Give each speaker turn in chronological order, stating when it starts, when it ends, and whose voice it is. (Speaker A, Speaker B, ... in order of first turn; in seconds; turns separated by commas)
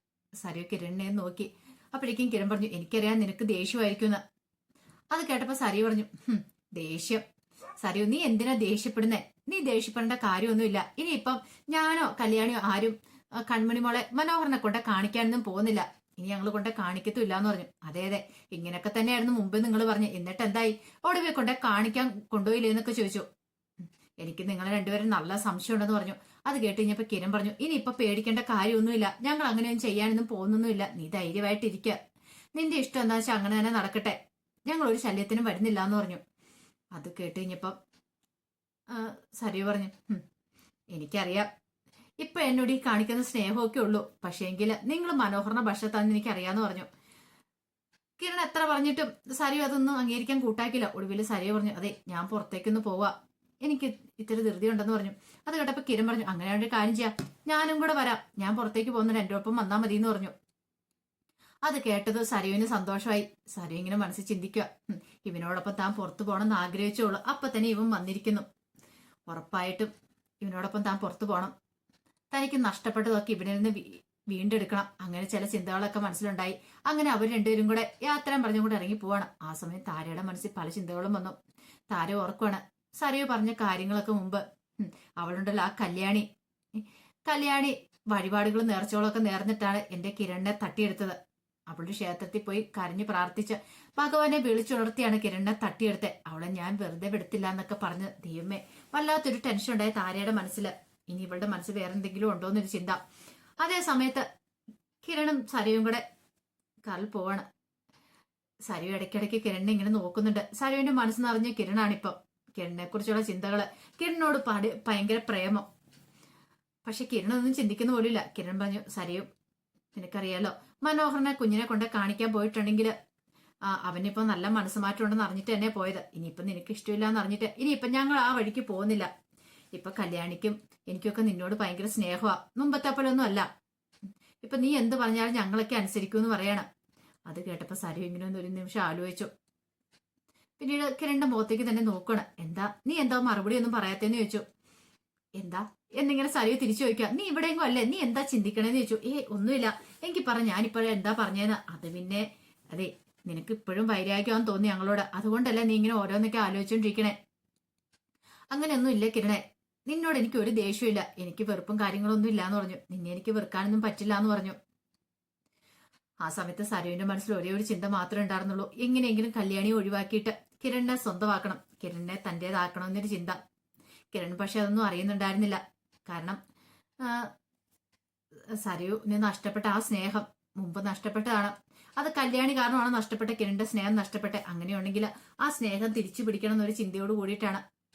Speaker A: 0.4-4.2, Speaker A: 5.1-7.2, Speaker A: 7.8-23.2, Speaker A: 24.2-32.0, Speaker A: 32.5-34.2, Speaker A: 34.7-36.2, Speaker A: 37.0-37.8, Speaker A: 38.9-40.2, Speaker A: 40.9-41.5, Speaker A: 42.2-46.9, Speaker A: 48.2-60.3, Speaker A: 61.6-68.5, Speaker A: 69.3-69.9, Speaker A: 70.4-71.5, Speaker A: 72.3-81.3, Speaker A: 81.9-91.2, Speaker A: 91.7-103.0, Speaker A: 103.6-104.2, Speaker A: 105.0-106.0, Speaker A: 106.9-107.4, Speaker A: 108.7-115.6, Speaker A: 116.8-119.3, Speaker A: 119.9-122.9, Speaker A: 123.7-129.1, Speaker A: 129.7-133.5, Speaker A: 134.4-136.7, Speaker A: 137.3-139.3, Speaker A: 140.6-144.4, Speaker A: 145.4-157.2, Speaker A: 158.5-164.6, Speaker A: 166.2-173.4, Speaker A: 174.1-176.4, Speaker A: 177.0-177.3, Speaker A: 178.5-187.6